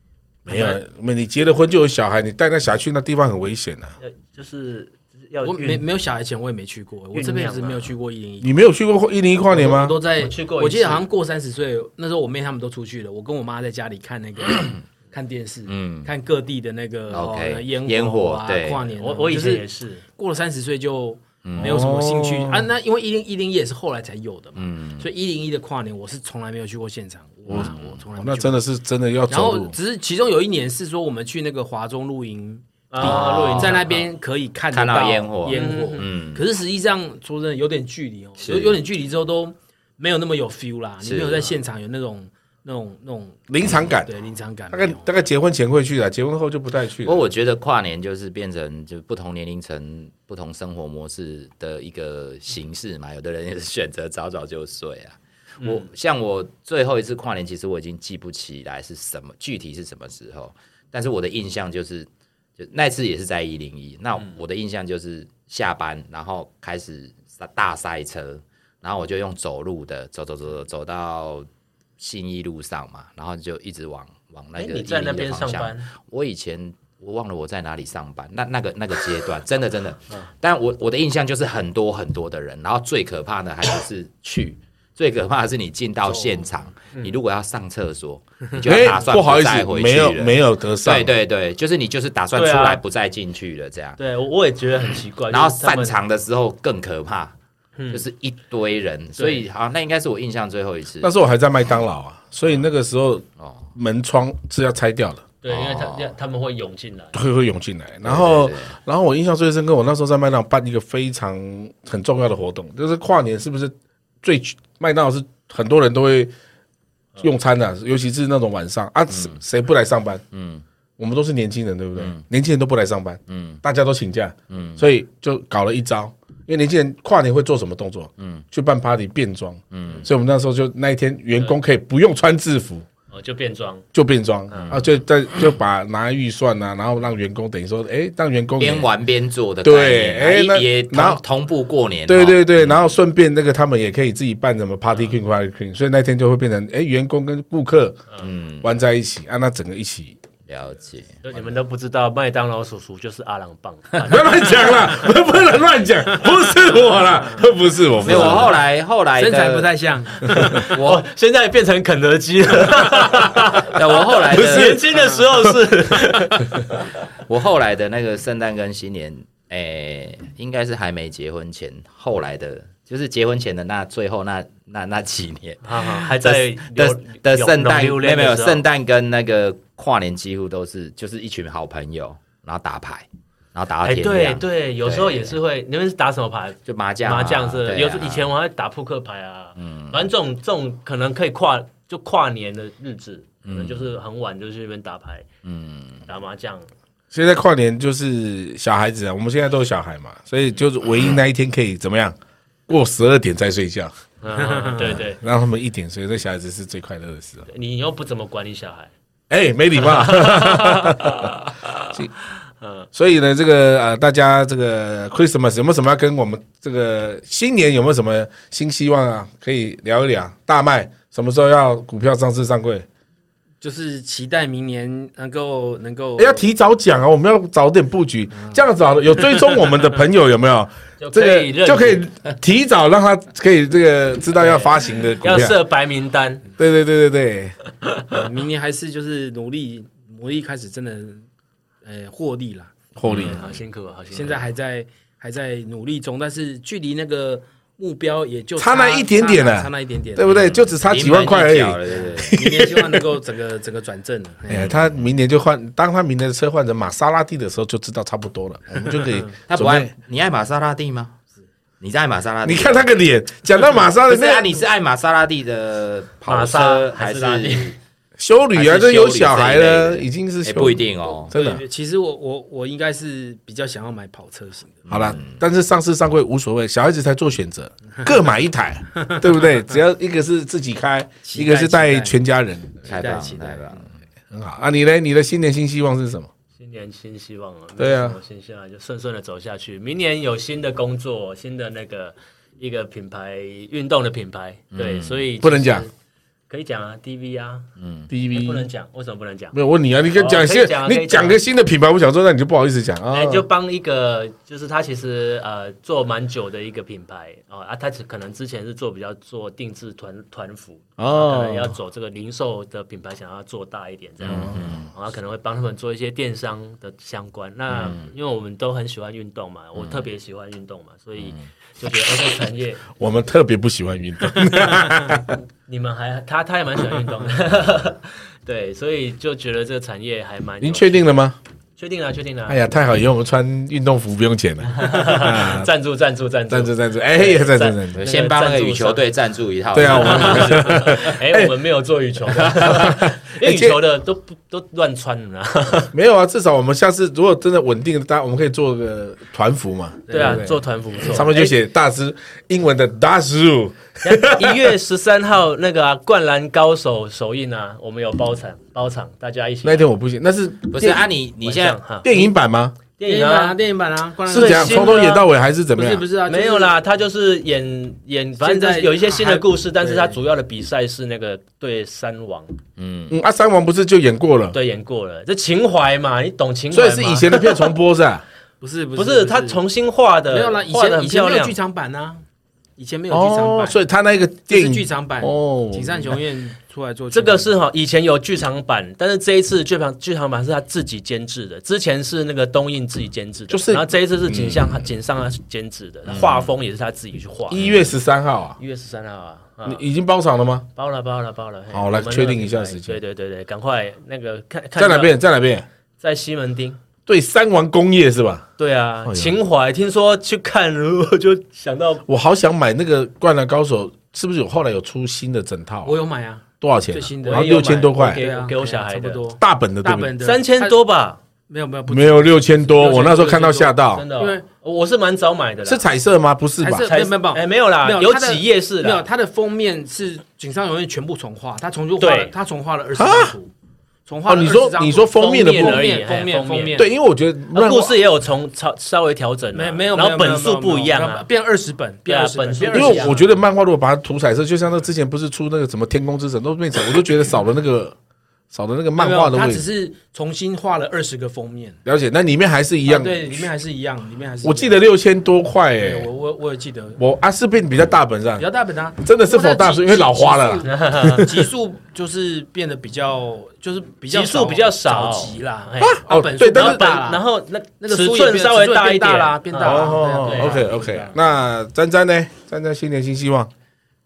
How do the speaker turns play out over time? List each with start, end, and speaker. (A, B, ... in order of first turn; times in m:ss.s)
0:00.4-0:00.8 A
0:00.4-0:03.9 B
0:04.0-0:05.8 A
0:05.4-0:08.5 C
0:07.1-0:07.8 A
0:08.4-0:10.0 B
0:09.5-0:19.6 C
0:10.2-0:11.0 A
0:15.7-0:16.1 D
0:17.1-0:18.9 D
0:19.0-0:20.0 A
0:20.2-0:28.6 C
0:21.4-0:21.8 D
0:21.6-0:22.7 B
0:24.6-0:25.1 D
0:27.5-0:29.7 B
0:27.5-0:27.9 D
0:29.3-0:45.1 C
0:32.9-0:34.0 A
0:33.0-0:34.0 D
0:34.7-0:36.4 D
0:35.5-0:36.1 A
0:38.4-0:38.8 D
0:41.0-0:41.5 D
0:43.5-0:44.1 B
0:44.7-0:47.2 B
0:47.0-1:11.5 D
0:55.6-0:55.9 A
1:12.0-1:34.0 D
1:14.6-1:15.9 A
1:28.6-1:31.1 B
1:32.3-1:32.8 A
1:34.0-1:36.0 A
1:35.3-1:37.3 D
1:37.8-1:38.0 A
1:37.9-1:41.1 D
1:39.2-1:39.4 A
1:41.0-1:45.2 B
1:43.4-1:43.7 D
1:45.4-1:47.1 A
1:45.5-1:46.1 D
1:47.1-1:56.3 B
1:48.0-1:48.7 D
1:57.2-2:00.2 B
1:59.1-1:59.4 D
2:00.3-2:00.6 D
2:01.0-2:12.8 B
2:02.0-2:02.2 D
2:03.3-2:03.6 D
2:04.5-2:04.8 D
2:08.2-2:08.4 D
2:09.7-2:10.1 D
2:13.1-2:13.8 A
2:13.9-2:18.9 B
2:14.5-2:14.8 A
2:14.5-2:14.8 D
2:18.6-2:22.9 D
2:19.6-2:21.2 B
2:22.1-2:28.0 B
2:28.2-2:28.7 D
2:28.6-2:30.2 B
2:30.5-2:31.5 D
2:31.2-2:35.0 A
2:34.0-2:38.5 B
2:38.0-2:39.7 D
2:39.2-2:40.7 C
2:40.3-2:46.8 A
2:40.7-2:41.0 D
2:43.6-2:44.8 D
2:44.3-2:46.1 B
2:47.3-3:05.4 D
2:55.6-2:58.6 A
3:03.8-3:15.3 A
3:06.6-3:08.3 D
3:09.6-3:10.0 D
3:13.4-3:13.8 D
3:15.4-3:16.1 D
3:16.1-3:16.7 A
3:17.1-3:22.2 B
3:22.7-3:23.9 B
3:24.2-3:25.2 A
3:25.2-3:27.4 B
3:27.5-3:28.9 A
3:29.3-3:31.3 B
3:29.9-3:31.7 A
3:32.6-3:32.8 A
3:32.9-3:42.8 B
3:43.6-3:46.4 C
3:46.2-3:55.6 B
3:51.0-3:52.0 A
3:54.4-3:56.4 A
3:56.6-3:57.6 B
3:58.1-4:01.2 C
4:01.8-4:02.7 C
4:03.0-4:03.4 B
4:03.0-4:03.4 D
4:03.1-4:04.4 A
4:04.1-4:10.3 C
4:08.6-4:13.0 B
4:10.3-4:12.4 D
4:12.2-4:14.7 C
4:14.5-4:19.9 B
4:14.5-4:15.0 D
4:19.5-4:21.2 D
4:21.8-4:22.9 D
4:22.4-4:24.6 B
4:23.9-4:27.8 D
4:26.3-4:27.7 A
4:28.2-4:31.6 B
4:28.5-4:31.3 D
4:31.3-4:34.8 C
4:34.8-4:35.4 D
4:34.9-4:42.9 B
4:41.2-4:42.2 C
4:42.8-4:43.8 C
4:42.8-4:43.9 D
4:44.3-4:46.3 B
4:46.6-4:55.9 A
4:47.8-4:48.2 B
4:54.7-4:55.2 D
4:55.4-4:55.9 B
4:56.5-4:57.7 A
4:57.8-4:58.1 D
4:58.1-4:58.7 B
4:58.3-4:59.6 A
4:59.5-5:03.5 B
5:00.1-5:01.4 A
5:03.1-5:22.9 A
5:11.0-5:11.8 B
5:14.2-5:14.9 D
5:14.3-5:14.6 B
5:17.7-5:18.1 D
5:19.8-5:20.0 D
5:21.2-5:21.4 D
5:23.0-5:25.3 B
5:25.7-5:31.1 A
5:30.6-5:31.4 B
5:31.8-5:32.6 A
5:32.5-5:35.7 B
5:34.7-5:39.0 A
5:36.5-5:38.0 B
5:37.9-5:41.1 D
5:39.7-5:41.6 B
5:39.8-5:45.9 A
5:42.4-5:43.8 B
5:45.9-5:54.7 B
5:50.1-5:50.4 C
5:50.1-5:51.5 A
5:54.0-5:59.9 A
5:59.6-6:01.0 B
6:00.7-6:01.8 D
6:01.4-6:02.3 A
6:02.0-6:02.7 B
6:03.0-6:03.6 A
6:03.0-6:05.1 C
6:04.3-6:05.2 A
6:04.3-6:06.0 B
6:05.8-6:06.7 C
6:06.2-6:12.5 A
6:08.4-6:10.1 C
6:12.8-6:13.2 D
6:13.1-6:14.6 B
6:14.5-6:17.7 A
6:16.7-6:18.2 B
6:18.6-6:19.6 C
6:19.0-6:21.6 A
6:20.3-6:22.2 C
6:22.8-6:23.8 C
6:23.1-6:26.2 B
6:24.5-6:27.5 C
6:27.1-6:37.6 A
6:33.5-6:34.7 B
6:36.1-6:36.5 D
6:37.5-6:38.6 B
6:37.5-6:37.8 D
6:38.6-6:39.8 A
6:39.6-6:40.7 B
6:40.8-6:45.2 A
6:41.7-6:43.0 B
6:44.8-6:45.6 B
6:46.0-6:46.8 A
6:47.1-6:48.4 B
6:48.6-6:52.0 A
6:49.0-6:49.3 B
6:52.1-6:55.9 B
6:55.8-7:00.8 C
6:56.6-6:58.2 B
6:57.2-6:59.2 A
6:59.4-7:00.1 B
7:00.2-7:01.2 A
7:01.5-7:04.4 C
7:01.9-7:04.0 B
7:03.9-7:05.8 A
7:05.6-7:06.9 B
7:06.6-7:13.5 C
7:06.8-7:09.0 A
7:12.0-7:12.3 A
7:13.0-7:13.3 B
7:14.0-7:16.9 C
7:14.3-7:15.9 B
7:15.1-7:16.8 A
7:16.7-7:18.0 B
7:17.5-7:21.3 A
7:19.5-7:23.2 C
7:22.0-7:23.2 A
7:22.7-7:27.9 B
7:28.5-7:29.6 B
7:29.0-7:31.8 C
7:31.8-7:33.4 B
7:32.8-7:34.8 C
7:34.4-7:36.1 B
7:35.8-7:37.0 C
7:37.0-7:38.4 B
7:38.4-7:47.2 C
7:39.0-7:41.3 B
7:40.6-7:41.3 A
7:44.1-7:50.6 A
7:45.8-7:47.0 B
7:47.8-7:51.1 C
7:49.6-7:53.5 B